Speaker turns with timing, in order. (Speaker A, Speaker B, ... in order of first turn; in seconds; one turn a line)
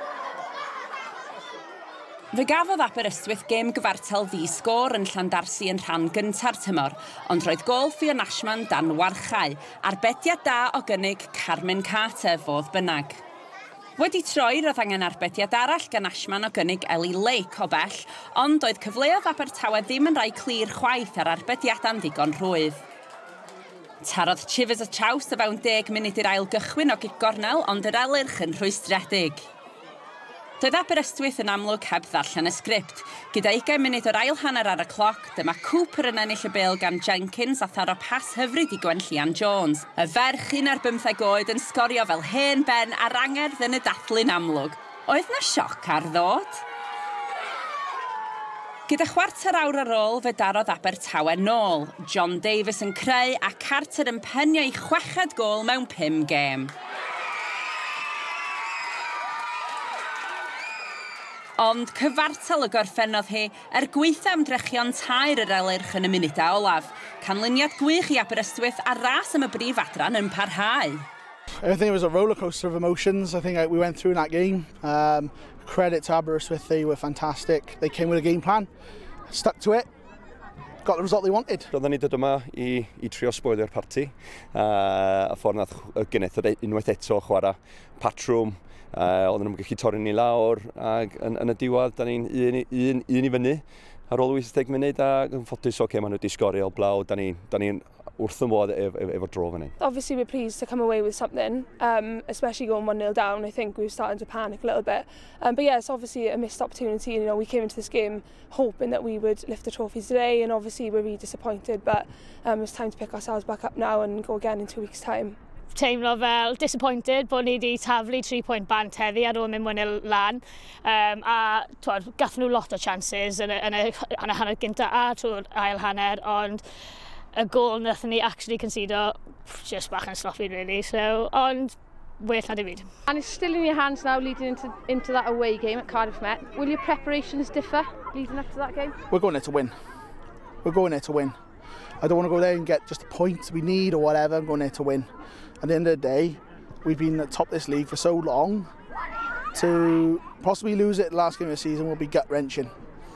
Speaker A: 2.3-13.2
Speaker A: 14.0-22.8
Speaker A: 24.0-29.4
Speaker A: 30.6-46.6
Speaker A: 48.9-56.7
Speaker A: 61.6-71.0
Speaker B: 71.6-78.7
Speaker B: 79.3-79.9
Speaker B: 80.8-81.7
Speaker C: 81.7-99.7
Speaker D: 99.8-115.3
Speaker E: 115.7-126.6
Speaker E: 127.3-132.9
Speaker F: 133.1-138.9
Speaker B: 139.1-139.7
Speaker B: 140.6-141.3
Speaker B: 142.0-148.7
Speaker B: 149.5-152.7